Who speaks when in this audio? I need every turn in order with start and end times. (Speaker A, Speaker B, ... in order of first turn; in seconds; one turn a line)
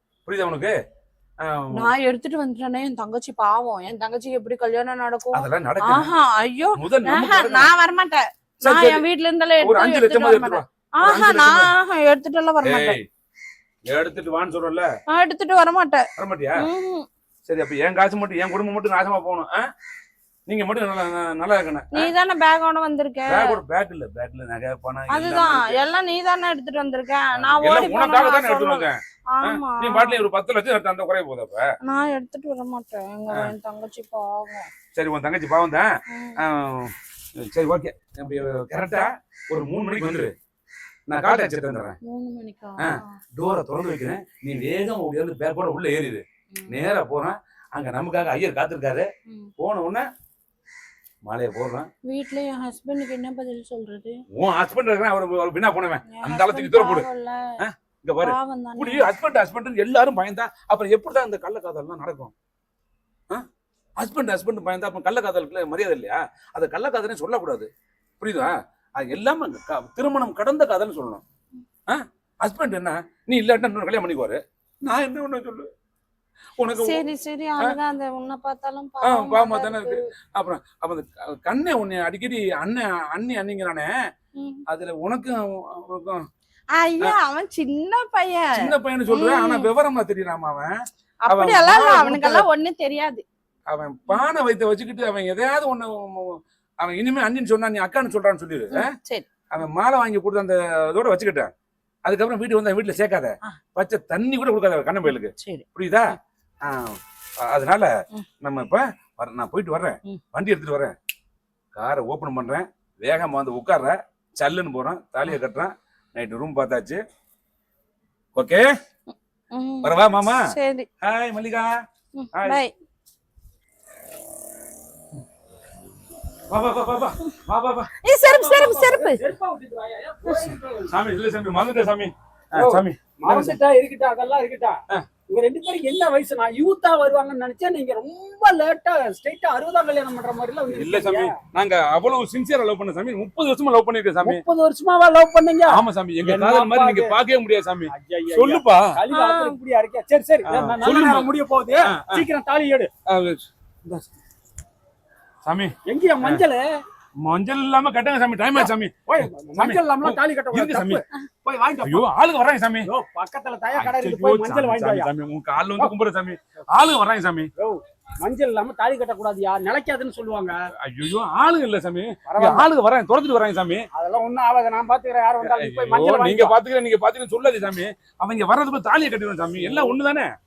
Speaker A: 0.2-0.7
Speaker A: 1.4-1.9
Speaker B: 1.7-13.0
Speaker A: 5.3-6.1
Speaker A: 6.7-7.7
Speaker A: 8.6-9.0
Speaker A: 9.6-11.7
Speaker A: 12.6-13.1
Speaker A: 13.9-14.9
Speaker B: 15.1-16.1
Speaker A: 16.2-16.6
Speaker B: 16.6-17.1
Speaker A: 17.5-19.6
Speaker A: 20.5-22.1
Speaker B: 21.9-23.5
Speaker A: 23.3-25.8
Speaker B: 25.1-30.2
Speaker A: 27.4-31.7
Speaker B: 31.8-34.7
Speaker A: 34.9-40.3
Speaker B: 36.1-36.4
Speaker A: 41.1-42.0
Speaker B: 42.0-43.2
Speaker A: 42.8-49.1
Speaker A: 49.6-50.0
Speaker A: 51.2-51.9
Speaker B: 52.0-54.2
Speaker A: 54.3-57.1
Speaker B: 56.0-57.5
Speaker A: 57.6-62.3
Speaker B: 58.2-59.1
Speaker A: 64.0-67.7
Speaker A: 68.2-71.2
Speaker A: 71.9-75.7
Speaker A: 76.6-77.0
Speaker B: 76.8-80.0
Speaker A: 79.0-83.9
Speaker B: 84.3-84.6
Speaker A: 84.7-86.2
Speaker B: 86.7-89.7
Speaker A: 88.5-90.7
Speaker B: 91.2-93.2
Speaker A: 91.3-92.5
Speaker A: 93.7-98.9
Speaker B: 98.7-99.2
Speaker A: 99.5-101.5
Speaker A: 102.0-107.9
Speaker B: 105.4-105.6
Speaker A: 108.4-110.9
Speaker A: 111.7-117.0
Speaker A: 118.3-118.7
Speaker B: 119.5-120.9
Speaker A: 119.8-120.4
Speaker A: 121.0-121.7
Speaker B: 122.1-122.7
Speaker A: 122.3-122.6
Speaker A: 126.5-127.9
Speaker B: 128.0-129.2
Speaker C: 128.2-130.9
Speaker A: 130.2-133.6
Speaker C: 132.5-141.3
Speaker A: 140.7-144.4
Speaker C: 144.2-147.2
Speaker A: 145.7-149.5
Speaker C: 147.9-152.9
Speaker A: 150.5-151.3
Speaker A: 151.9-152.2
Speaker A: 153.1-154.0
Speaker A: 155.4-156.4
Speaker C: 155.8-156.6
Speaker A: 157.2-161.0
Speaker C: 158.6-162.0
Speaker A: 161.8-162.9
Speaker C: 162.8-165.1
Speaker A: 163.8-167.5
Speaker C: 167.6-170.6
Speaker A: 170.8-173.9
Speaker C: 172.3-172.7
Speaker C: 173.9-176.6
Speaker A: 175.4-180.3
Speaker C: 179.6-179.9